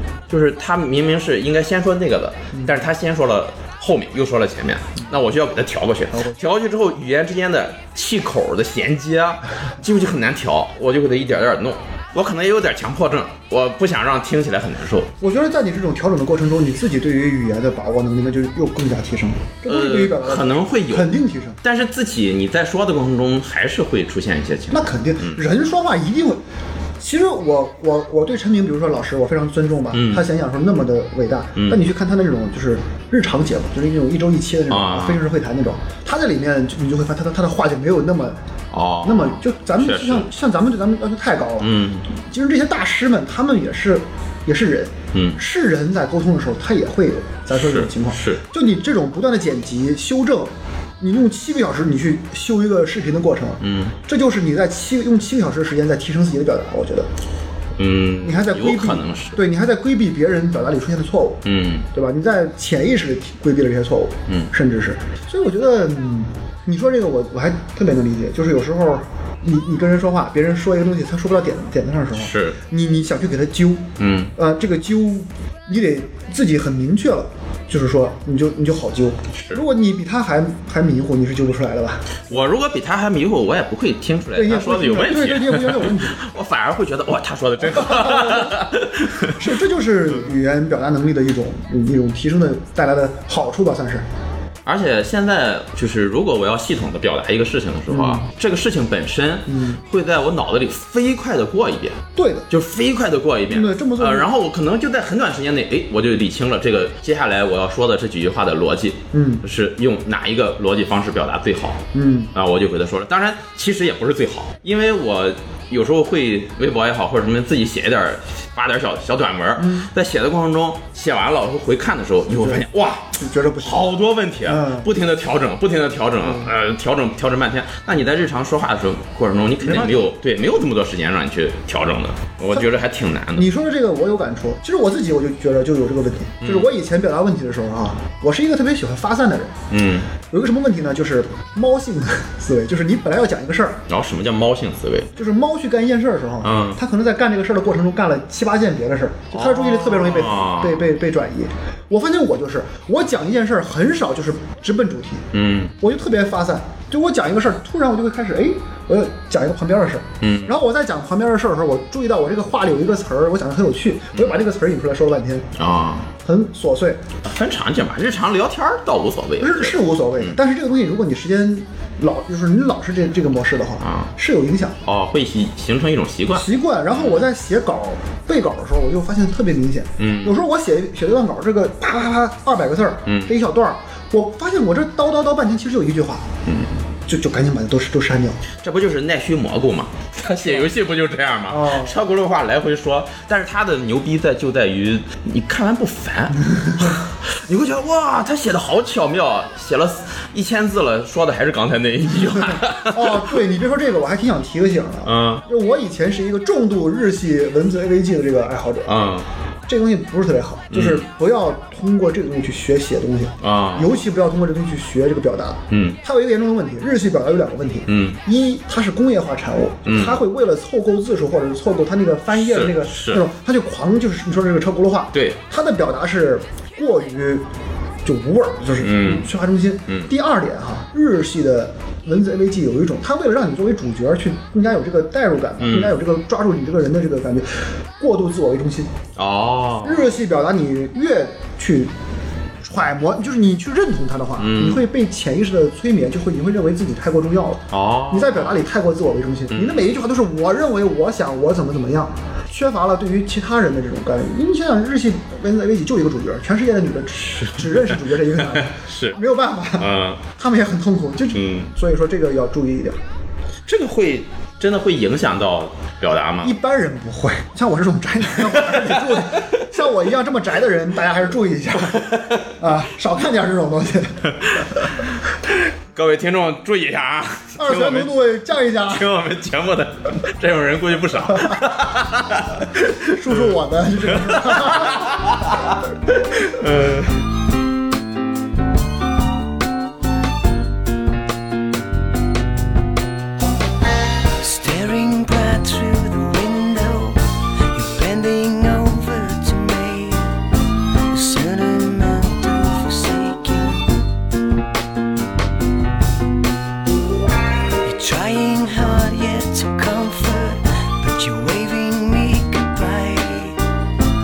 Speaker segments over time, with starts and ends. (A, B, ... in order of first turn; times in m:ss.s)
0:00.3-0:15.1 A
0:02.5-0:02.8 B
0:15.2-0:21.6 B
0:19.6-0:25.4 A
0:24.7-0:26.4 B
0:27.0-0:38.4 B
0:29.9-0:30.2 A
0:34.7-0:35.2 A
0:38.7-0:40.3 A
0:39.0-0:57.1 B
0:41.6-0:42.0 A
0:45.1-0:45.4 A
0:47.5-0:48.4 A
0:53.6-0:54.0 A
0:57.8-0:59.4 A
0:58.2-1:22.2 B
1:01.4-1:01.9 A
1:12.1-1:12.6 A
1:14.0-1:14.3 A
1:19.3-1:19.6 A
1:22.3-1:29.4 A
1:24.3-1:26.2 B
1:27.7-1:28.6 B
1:29.2-1:34.0 B
1:34.6-2:13.5 A
1:37.9-1:38.3 B
1:39.5-1:39.8 B
1:42.1-1:42.5 B
1:43.5-1:44.3 B
1:49.1-1:49.4 B
1:51.9-1:52.3 B
1:59.6-1:59.9 B
2:02.4-2:02.6 B
2:03.1-2:03.9 B
2:04.4-2:04.9 B
2:06.2-2:06.5 B
2:09.6-2:10.1 B
2:13.3-2:19.6 B
2:16.4-2:16.7 A
2:19.7-2:20.1 A
2:20.3-2:23.8 B
2:23.9-2:25.1 A
2:25.1-2:35.3 B
2:26.4-2:26.8 A
2:29.3-2:30.9 A
2:35.3-2:35.7 A
2:35.8-2:45.5 B
2:40.2-2:40.5 A
2:44.1-2:44.4 A
2:45.6-2:46.1 A
2:46.2-2:47.0 B
2:47.2-2:50.4 A
2:49.4-2:54.8 B
2:53.8-2:54.1 A
2:54.8-2:57.2 A
2:56.4-3:06.3 B
3:00.0-3:00.3 A
3:03.0-3:03.3 A
3:06.4-3:06.7 A
3:07.0-3:08.4 B
3:08.6-3:23.3 A
3:11.5-3:12.0 B
3:22.9-3:29.0 B
3:25.0-3:25.4 A
3:28.8-3:29.3 A
3:29.7-3:47.4 B
3:30.7-3:31.0 A
3:33.4-3:34.0 A
3:35.7-3:36.0 A
3:37.9-3:38.2 A
3:39.8-3:40.2 A
3:42.3-3:43.2 A
3:45.1-3:45.4 A
3:48.0-3:58.9 B
3:48.8-3:49.3 A
3:55.6-3:56.0 A
3:59.2-4:00.1 A
3:59.8-4:01.9 B
4:02.6-4:23.0 B
4:04.4-4:04.8 A
4:07.7-4:08.6 A
4:09.5-4:09.9 A
4:17.2-4:19.2 A
4:19.8-4:20.2 A
4:21.3-4:21.7 A
4:23.6-4:26.6 A
4:26.4-4:34.3 B
4:28.3-4:29.6 A
4:31.9-4:32.4 A
4:34.4-4:38.2 A
4:37.6-4:39.1 B
4:38.8-4:47.2 A
4:43.0-4:45.1 B
4:54.4-5:00.3 C
5:01.1-5:03.9 C
5:07.8-5:13.6 C